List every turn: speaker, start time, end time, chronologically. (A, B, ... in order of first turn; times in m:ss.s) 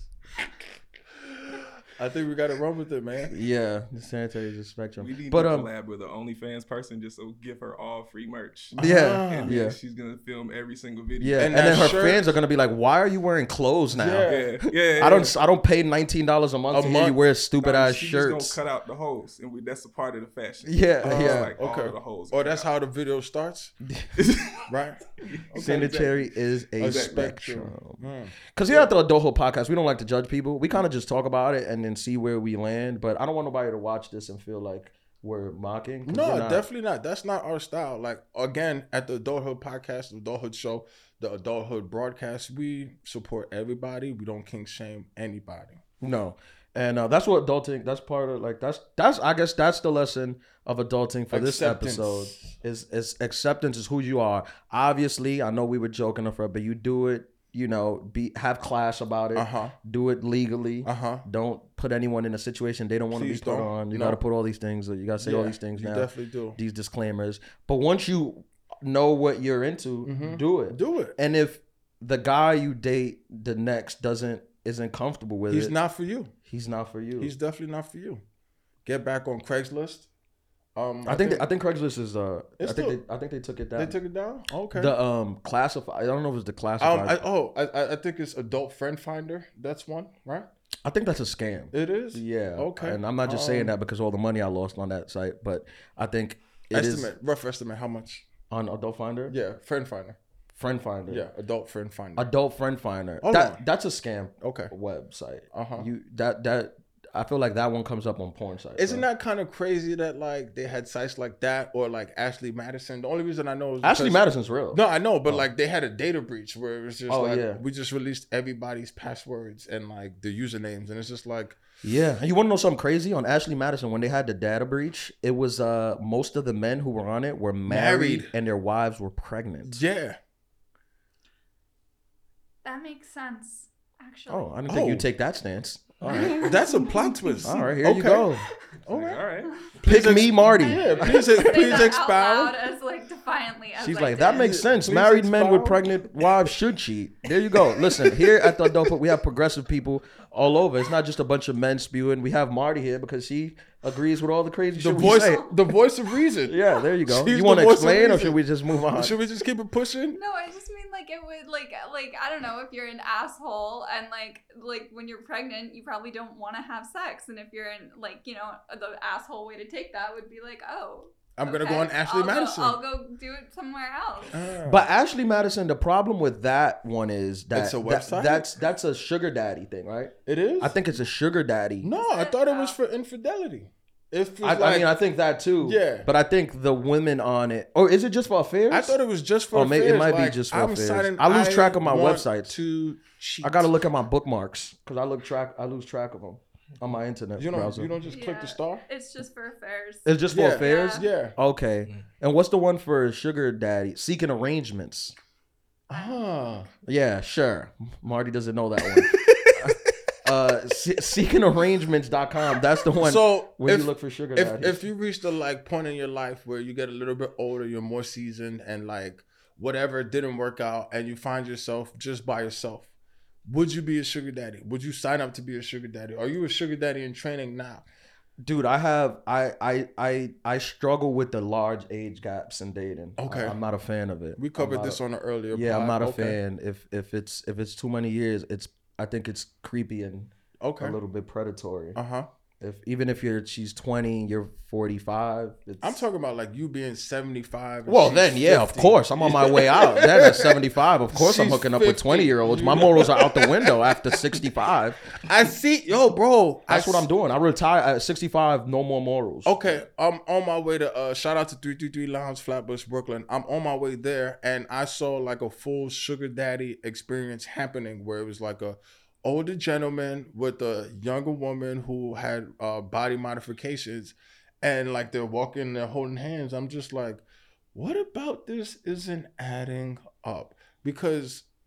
0:02.0-0:03.3 A
0:03.3-0:05.7 B
0:05.0-0:12.0 C
0:08.7-0:09.6 A
0:08.8-0:09.8 B
0:11.2-0:14.3 B
0:11.4-0:12.3 A
0:13.9-0:14.5 A
0:14.2-0:15.4 C
0:14.8-0:18.6 B
0:16.7-0:17.2 A
0:17.6-0:22.7 C
0:20.6-0:21.6 B
0:21.0-0:23.7 A
0:23.8-0:24.1 B
0:24.2-0:24.7 C
0:24.7-0:28.9 A
0:25.2-0:25.8 C
0:25.6-0:36.6 B
0:26.8-0:27.2 C
0:36.1-0:45.8 A
0:46.0-1:15.7 B
0:51.3-0:52.5 A
0:59.4-0:59.8 A
1:00.8-1:01.2 A
1:03.1-1:04.2 A
1:05.2-1:06.6 A
1:10.0-1:11.2 A
1:15.5-1:16.3 A
1:16.5-1:17.3 B
1:17.2-1:18.2 A
1:18.9-1:20.1 A
1:20.8-1:21.5 A
1:21.0-1:24.0 B
1:22.6-1:23.0 A
1:23.8-1:25.0 A
1:24.7-1:27.2 B
1:26.8-1:30.5 A
1:30.8-1:37.1 B
1:31.7-1:33.7 A
1:36.7-1:38.2 A
1:38.5-1:39.4 B
1:39.3-1:40.2 A
1:40.6-1:41.3 B
1:41.1-1:42.3 A
1:42.2-1:49.1 B
1:43.2-1:43.6 A
1:44.4-1:44.7 A
1:45.5-1:45.9 A
1:48.8-2:01.6 A
1:53.8-1:55.5 B
1:57.1-1:57.6 B
2:01.8-2:09.8 B
2:07.7-2:08.3 A
2:09.7-2:10.2 A
2:12.6-2:14.6 D
2:14.3-2:16.5 B
2:14.7-2:15.1 A
2:16.0-2:17.6 D
2:16.0-2:18.3 A
2:17.4-2:18.5 B
2:18.9-2:22.6 A
2:18.9-2:19.5 C
2:19.8-2:20.9 B
2:20.6-2:24.6 D
2:20.7-2:21.0 C
2:23.8-2:35.5 B
2:24.2-2:25.9 A
2:27.8-2:28.7 A
2:34.8-2:38.4 A
2:35.0-2:35.4 D
2:36.5-2:39.2 B
2:38.9-2:40.2 A
2:40.1-2:54.4 D
2:51.4-2:52.8 A
2:54.3-2:54.9 A
2:54.7-3:01.9 B
2:57.5-2:58.5 A
3:00.3-3:00.8 A
3:01.8-3:05.0 A
3:02.0-3:02.8 D
3:04.4-3:09.0 B
3:05.6-3:06.1 A
3:08.7-3:13.7 A
3:09.5-3:12.5 B
3:13.4-3:17.9 B
3:17.4-3:18.8 A
3:18.1-3:21.1 D
3:20.1-3:25.1 B
3:20.3-3:21.4 A
3:25.9-3:26.7 A
3:25.9-3:26.7 D
3:26.9-3:34.8 B
3:29.1-3:29.6 A
3:33.0-3:42.9 A
3:43.5-3:47.8 A
3:48.4-3:55.0 B
3:53.2-3:53.6 A
3:54.4-3:56.4 A
3:55.5-4:02.0 B
4:00.6-4:01.0 A
4:02.0-4:02.3 A
4:02.6-4:06.0 B
4:05.8-4:10.6 A
4:07.9-4:15.0 B
4:11.1-4:14.2 A
4:15.2-4:17.1 A
4:16.7-4:19.8 B
4:19.5-4:37.2 A
4:37.7-4:41.4 A